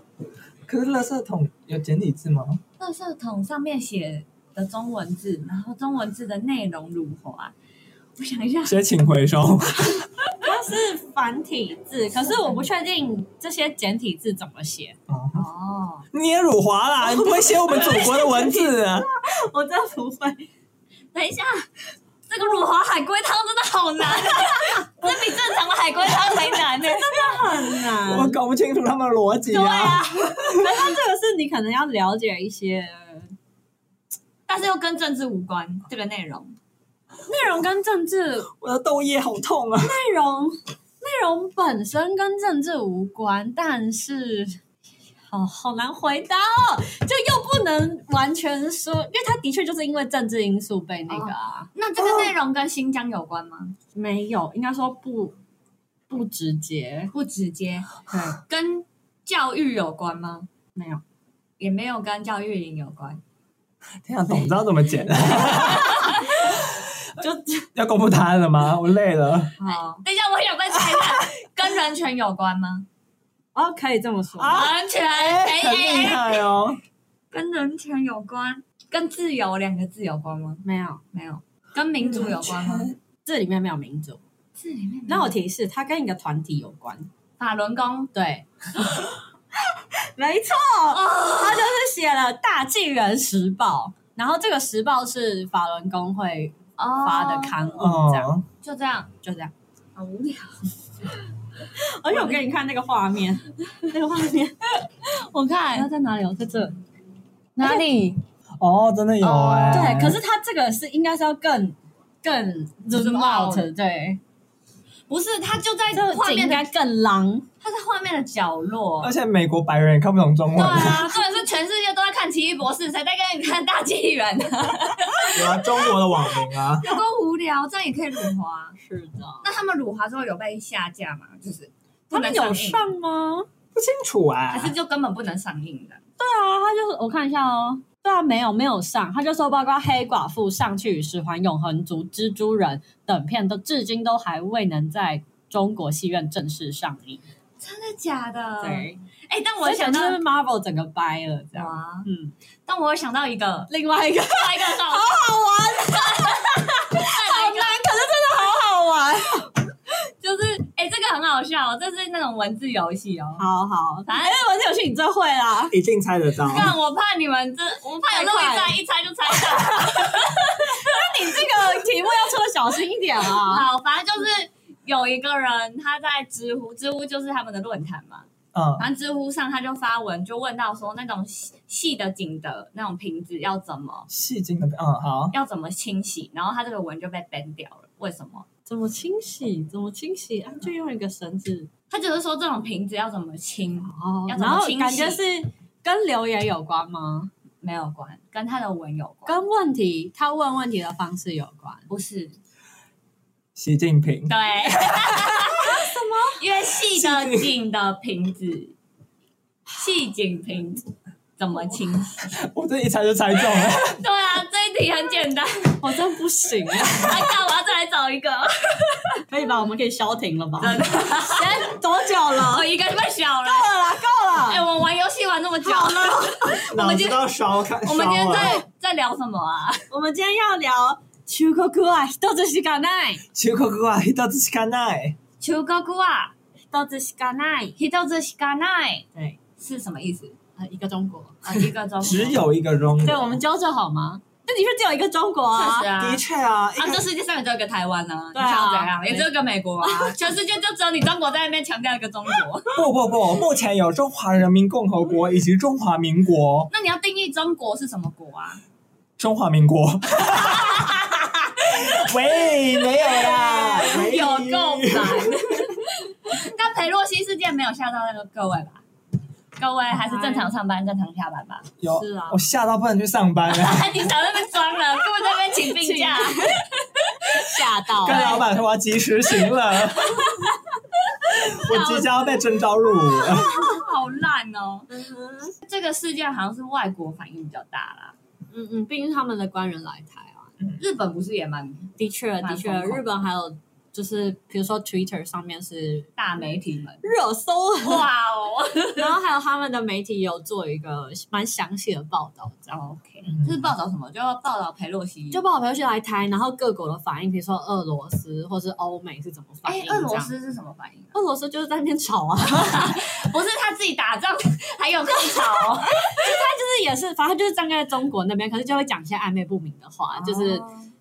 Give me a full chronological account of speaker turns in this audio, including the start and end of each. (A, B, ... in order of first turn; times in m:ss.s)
0:00.7-0:02.6 A
0:02.8-0:07.5 B
0:08.2-0:08.8 B
0:08.6-0:10.1 A
0:10.4-0:15.0 C
0:12.1-0:12.6 B
0:15.1-0:15.4 A
0:15.3-0:16.1 B
0:16.1-0:19.1 A
0:17.0-0:20.5 C
0:21.1-0:21.7 B
0:22.3-0:27.5 B
0:24.5-0:25.4 C
0:26.8-0:28.4 C
0:28.0-0:30.9 A
0:29.5-0:30.7 B
0:30.5-0:33.3 C
0:34.5-0:36.6 B
0:37.3-0:38.5 C
0:38.6-0:40.0 A
0:39.8-0:44.6 C
0:45.3-0:51.7 C
0:51.1-0:53.8 B
0:54.0-0:55.4 C
0:56.1-0:57.1 C
0:57.1-1:00.5 B
0:58.1-0:58.4 C
1:00.8-1:01.0 C
1:01.6-1:03.2 B
1:04.0-1:06.9 A
1:05.4-1:06.4 B
1:07.2-1:07.7 C
1:07.8-1:09.5 A
1:09.6-1:12.9 B
1:13.6-1:14.6 C
1:14.4-1:16.8 A
1:14.5-1:16.4 B
1:17.3-1:22.9 B
1:20.6-1:21.0 C
1:22.1-1:22.9 A
1:23.2-1:24.2 C
1:24.6-1:25.4 B
1:25.1-1:27.1 C
1:27.4-1:28.1 B
1:28.1-1:29.2 C
1:29.7-1:38.3 C
1:30.9-1:31.8 B
1:36.8-1:37.6 B
1:37.8-1:38.5 A
1:38.6-1:39.1 B
1:39.2-1:39.5 C
1:40.0-1:40.8 B
1:41.7-1:44.6 C
1:42.1-1:42.4 B
1:45.1-1:45.9 B
1:45.7-1:46.8 C
1:47.6-1:48.1 B
1:47.6-1:48.1 C
1:48.6-1:50.2 A
1:49.2-1:50.1 B
1:49.7-1:54.2 C
1:52.9-1:53.7 B
1:55.1-1:56.7 B
1:55.9-1:57.5 C
1:57.6-1:59.1 B
1:59.0-2:01.1 A
2:00.5-2:08.8 B
2:05.3-2:06.9 A
2:08.8-2:09.5 C
2:09.4-2:12.8 B
2:12.1-2:13.5 C
2:13.8-2:14.7 A
2:14.5-2:16.0 B
2:16.2-2:27.2 C
2:27.6-2:30.2 B
2:28.6-2:29.0 C
2:29.6-2:32.3 C
2:31.5-2:32.1 B
2:32.7-2:33.7 B
2:33.7-2:39.6 C
2:34.3-2:35.2 B
2:35.8-2:37.9 B
2:40.2-2:43.4 B
2:43.4-2:45.8 C
2:44.1-2:44.4 B
2:45.7-2:46.7 A
2:46.4-2:51.4 B
2:47.8-2:48.8 C
2:49.3-2:53.7 C
2:53.3-2:58.3 B
2:58.5-2:58.9 A
2:58.8-3:04.1 B
3:04.1-3:05.4 A
3:05.3-3:08.5 B
3:08.7-3:11.7 C
3:11.9-3:15.2 B
3:13.9-3:17.3 C
3:17.6-3:19.4 B
3:19.3-3:21.8 C
3:21.9-3:22.4 B
3:23.6-3:25.6 A
3:24.3-3:25.8 B
3:25.6-3:26.4 C
3:26.4-3:28.7 B
3:26.9-3:27.5 A
3:29.8-3:30.8 B
3:31.4-3:32.3 B
3:32.4-3:34.0 A
3:33.7-3:35.8 B
3:35.8-3:37.1 C
3:36.8-3:39.2 B
3:39.2-3:42.7 C
3:40.6-3:41.7 B
3:42.3-3:43.8 B
3:43.4-3:44.6 C
3:44.4-3:47.2 B
3:45.6-3:46.6 C
3:46.6-3:48.6 A
3:47.8-3:49.9 B
3:49.9-3:53.2 C
3:53.4-3:55.2 A
3:55.4-3:56.3 B
3:56.7-3:57.8 C
3:57.8-3:59.1 B
3:59.6-4:00.4 B
4:00.6-4:01.7 C
4:01.4-4:02.4 B
4:02.0-4:03.4 A
4:03.0-4:05.9 C
4:05.5-4:06.2 B
4:06.0-4:07.1 A
4:06.8-4:12.8 B
4:08.4-4:09.3 C
4:09.8-4:10.3 C
4:12.7-4:16.7 A
4:16.7-4:18.6 B
4:19.2-4:21.0 A
4:20.3-4:28.8 B
4:21.6-4:25.4 A
4:29.6-4:31.7 B
4:29.9-4:30.5 C
4:31.8-4:34.0 A
4:31.9-4:32.4 C
4:33.5-4:38.5 B
4:35.6-4:36.6 C
4:37.3-4:38.4 C
4:38.0-4:40.3 A
4:39.9-4:44.9 B
4:41.3-4:43.6 A
4:44.9-4:45.6 C
4:45.6-4:48.2 B
4:48.5-4:50.5 C
4:50.8-4:53.0 B
4:52.0-4:56.1 C
4:56.2-4:57.0 B
4:57.0-4:58.1 C
4:57.8-4:59.2 B
4:59.0-5:02.8 C
5:02.7-5:05.4 B
5:03.3-5:03.6 A
5:05.3-5:10.3 C
5:09.6-5:11.2 B
5:11.1-5:13.0 C
5:12.6-5:16.2 B
5:15.9-5:20.6 C
5:20.1-5:20.9 B